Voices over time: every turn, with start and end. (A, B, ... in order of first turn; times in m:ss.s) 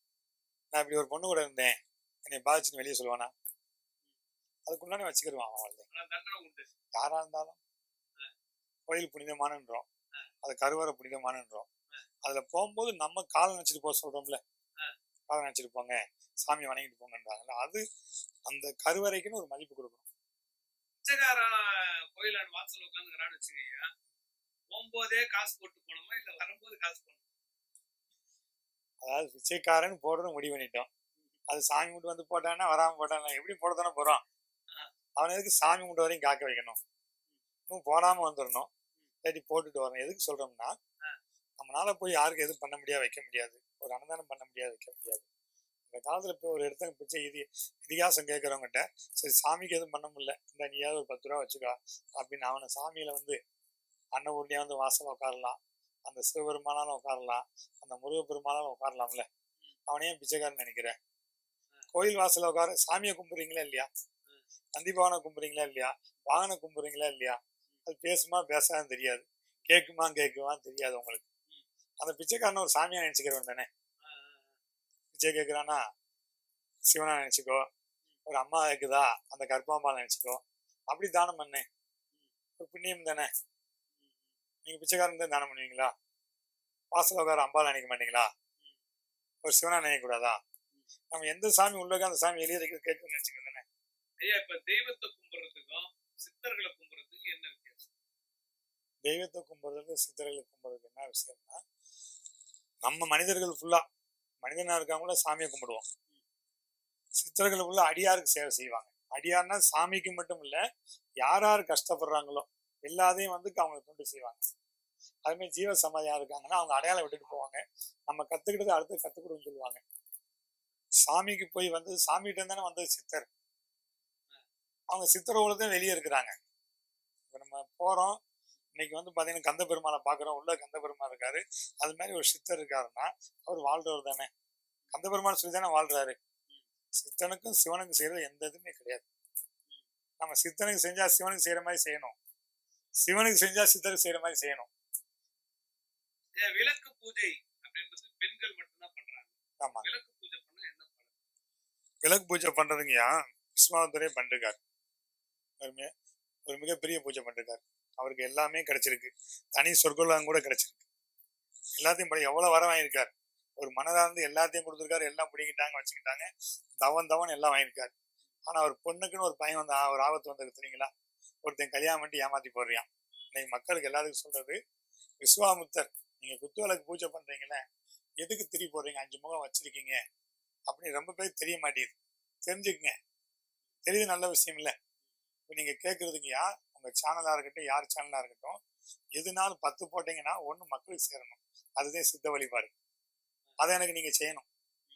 0:00.7-0:03.3 A
0:04.7-0:05.9 A
0:05.9-0:06.7 B
0:07.0-0:07.6 A
0:08.9-0:09.9 A
0:10.4-0:11.7 A
0:12.2-0:14.4 A
0:15.3-0:17.8 A
0:18.5-0:20.0 A
0:21.0-0:23.9 B
0:24.7-0:27.2 B
0:29.0-0:30.9 A
0:31.5-0:34.2 A
0:35.2-0:36.8 A
0:37.7-0:38.7 A
0:39.2-0:40.7 A
0:41.6-0:45.2 A
0:45.9-0:53.4 A
0:54.2-0:59.3 A
0:59.9-1:01.0 A
1:01.9-1:03.9 A
1:04.8-1:11.2 A
1:12.0-1:13.7 A
1:14.0-1:14.5 B
1:15.1-1:15.8 A
1:16.9-1:17.7 A
1:18.3-1:21.6 A
1:22.6-1:23.3 A
1:24.6-1:25.9 A
1:26.9-1:28.3 A
1:29.4-1:30.4 A
1:31.1-1:33.6 A
1:34.2-1:37.9 B
1:39.1-1:41.6 A
1:42.8-1:43.8 A
1:44.4-1:45.8 A
1:47.2-1:50.6 A
1:51.2-1:54.4 A
1:55.3-1:59.8 A
2:01.0-2:03.3 A
2:04.9-2:06.3 A
2:07.3-2:08.2 A
2:08.8-2:14.3 A
2:14.9-2:16.2 A
2:17.0-2:19.0 A
2:20.2-2:22.1 A
2:23.0-2:24.7 A
2:26.4-2:31.1 B
2:29.6-2:29.9 A
2:32.0-2:34.6 A
2:35.6-2:35.9 A
2:36.5-2:40.8 A
2:41.8-2:46.3 A
2:46.8-2:47.9 A
2:48.5-2:50.9 A
2:51.4-2:54.6 A
2:55.2-2:57.6 A
2:58.2-3:00.0 A
3:00.7-3:03.0 A
3:03.9-3:04.7 A
3:05.5-3:08.6 A
3:09.2-3:12.7 A
3:13.6-3:14.4 A